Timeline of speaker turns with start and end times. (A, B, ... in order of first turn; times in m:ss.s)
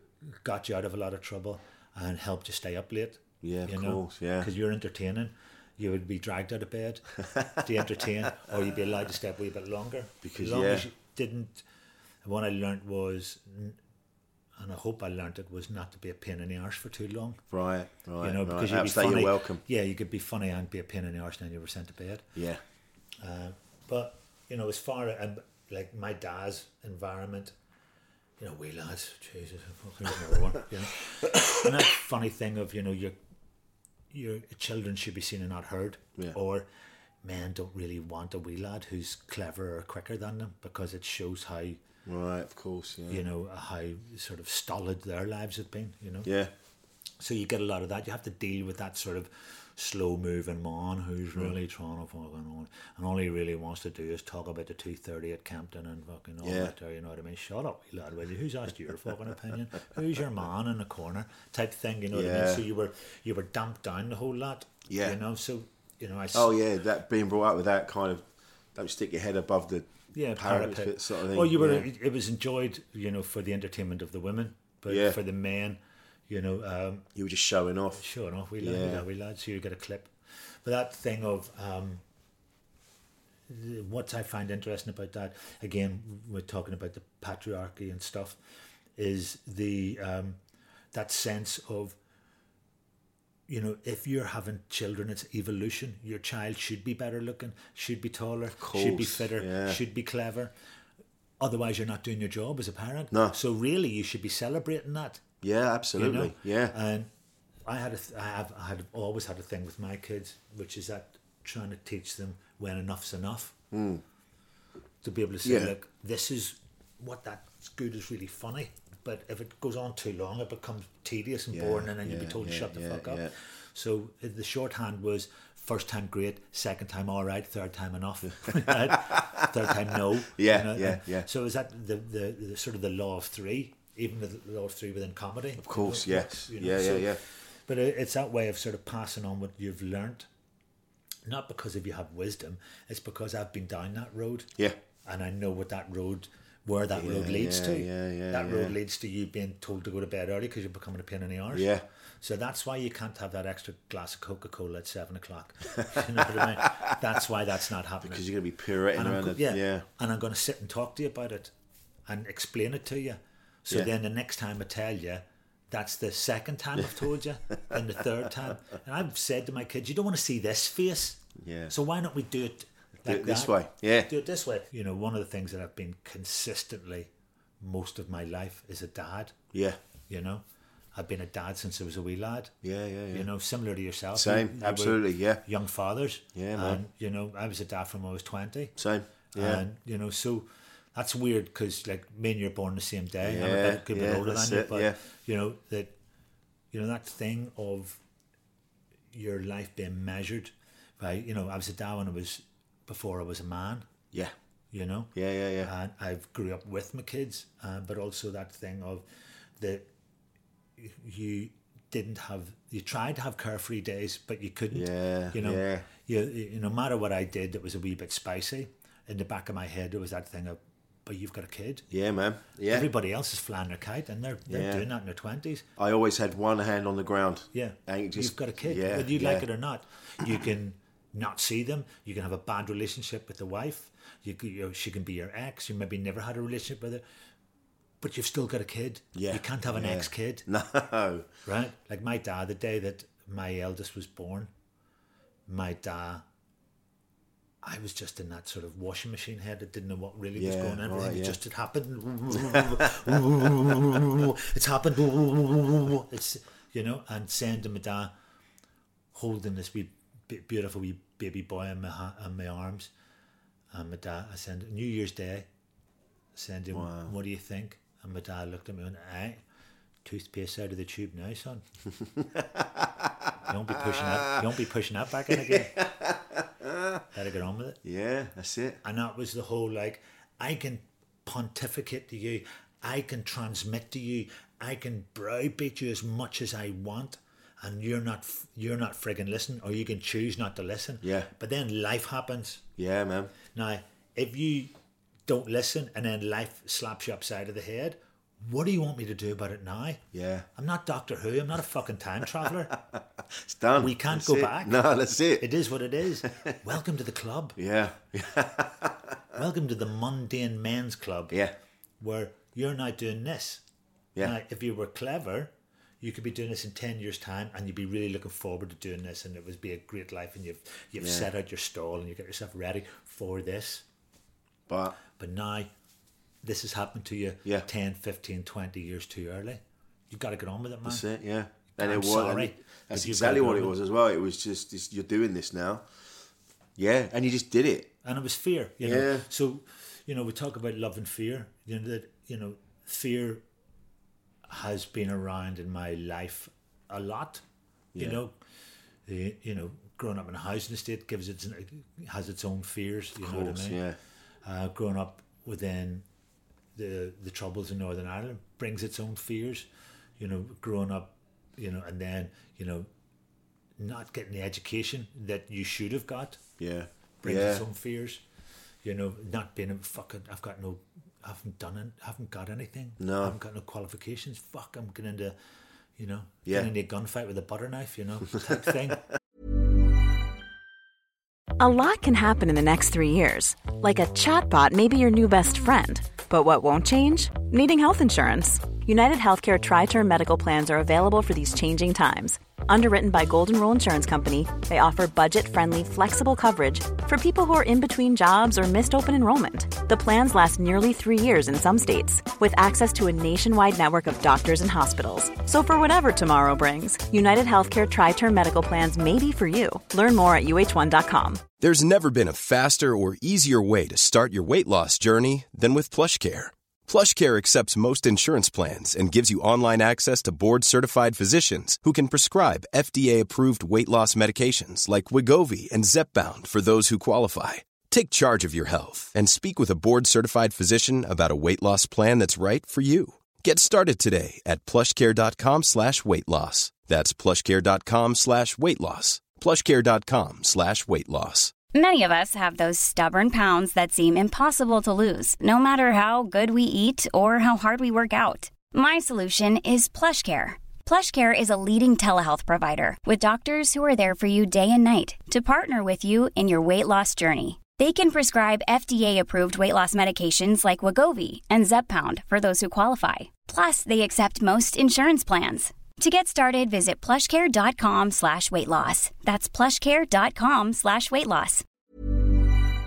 0:00.4-0:11.6 A
0:03.4-0:04.5 B
0:10.2-0:10.9 B
0:12.2-0:13.8 A
0:14.6-0:17.4 A
0:17.5-0:19.6 B
0:18.2-0:22.2 A
0:22.4-0:22.6 B
0:23.2-0:27.5 A
0:28.4-0:33.2 A
0:34.1-0:36.7 A
0:37.2-0:41.8 A
0:42.0-0:43.2 B
0:43.1-0:46.3 A
0:46.2-0:46.5 B
0:47.2-1:06.5 A
0:56.4-0:56.7 B
1:02.1-1:02.6 B
1:04.9-1:05.2 B
1:06.3-1:11.9 B
1:10.1-1:17.1 A
1:14.9-1:15.2 B
1:17.1-1:18.0 B
1:18.0-1:20.1 A
1:18.6-1:19.0 B
1:20.6-1:22.0 A
1:23.5-1:28.4 A
1:29.0-1:30.4 A
1:30.9-1:32.0 A
1:33.5-1:40.5 A
1:38.6-1:39.8 B
1:41.4-1:45.2 A
1:45.4-1:46.7 B
1:46.0-1:47.1 A
1:47.6-1:53.5 A
1:53.7-1:54.0 B
1:55.0-2:20.3 A
1:55.4-1:55.7 B
2:01.5-2:03.3 B
2:08.5-2:09.5 B
2:10.3-2:11.3 B
2:15.6-2:17.2 B
2:21.2-2:24.5 A
2:25.0-2:31.7 A
2:26.9-2:28.8 B
2:31.5-2:31.8 B
2:32.2-2:38.2 A
2:36.3-2:36.6 B
2:38.0-2:39.8 B
2:38.9-2:41.5 A
2:42.1-2:59.3 A
2:51.4-2:51.7 B
2:53.0-2:54.1 B
2:59.5-2:59.8 B
3:00.1-3:00.4 A
3:00.9-3:02.5 A
3:02.6-3:03.3 B
3:03.1-3:08.8 A
3:04.1-3:05.4 B
3:06.3-3:06.8 B
3:08.8-3:09.6 B
3:09.3-3:15.9 A
3:13.2-3:15.0 B
3:16.7-3:18.0 A
3:19.1-3:23.8 A
3:24.7-3:29.0 A
3:25.1-3:25.7 B
3:29.6-3:29.8 A
3:30.8-3:41.9 A
3:34.7-3:35.9 B
3:41.9-3:42.9 B
3:42.6-3:45.6 A
3:44.5-3:44.9 B
3:45.8-3:49.4 B
3:47.5-3:57.0 A
3:58.0-4:00.4 A
3:59.1-4:01.3 B
4:01.4-4:04.5 A
4:05.5-4:06.2 A
4:07.6-4:18.1 A
4:10.4-4:11.4 B
4:12.3-4:13.1 B
4:19.1-4:22.9 A
4:23.7-4:25.5 A
4:26.3-4:29.4 A
4:26.7-4:27.1 B
4:30.0-4:31.6 A
4:32.2-4:34.4 B
4:33.5-4:35.7 A
4:35.3-4:37.0 B
4:37.1-4:37.8 A
4:37.8-4:38.8 B
4:38.8-4:52.6 A
4:51.0-4:51.3 B
4:52.8-4:53.3 B
4:53.5-4:54.7 A
4:55.3-5:00.0 A
5:00.1-5:00.5 B
5:00.5-5:02.8 A
5:02.7-5:05.5 B
5:03.8-5:04.8 A
5:05.4-5:07.6 A
5:06.2-5:06.5 B
5:07.6-5:09.2 B
5:09.3-5:11.4 A
5:11.3-5:11.5 B
5:12.0-5:13.6 A
5:14.2-5:23.8 A
5:21.0-5:21.3 B
5:24.7-5:25.0 B
5:25.1-5:25.7 A
5:26.4-5:31.0 A
5:30.8-5:35.8 B
5:31.7-5:33.7 A
5:36.8-5:37.9 B
5:38.0-5:43.4 A
5:38.8-5:39.3 B
5:44.5-5:47.4 A
5:47.9-5:48.2 B
5:48.0-5:48.3 A
5:49.0-5:53.8 A
5:53.2-5:54.0 B
5:54.4-5:56.0 A
5:56.8-5:59.7 A
6:00.2-6:02.9 A
6:03.8-6:06.4 A
6:06.6-6:07.6 B
6:07.2-6:08.2 A
6:08.8-6:15.3 A
6:13.0-6:13.4 B
6:16.0-6:19.0 A
6:18.4-6:18.9 B
6:21.6-6:51.5 C
6:51.5-7:21.6 D
7:21.7-7:51.6 E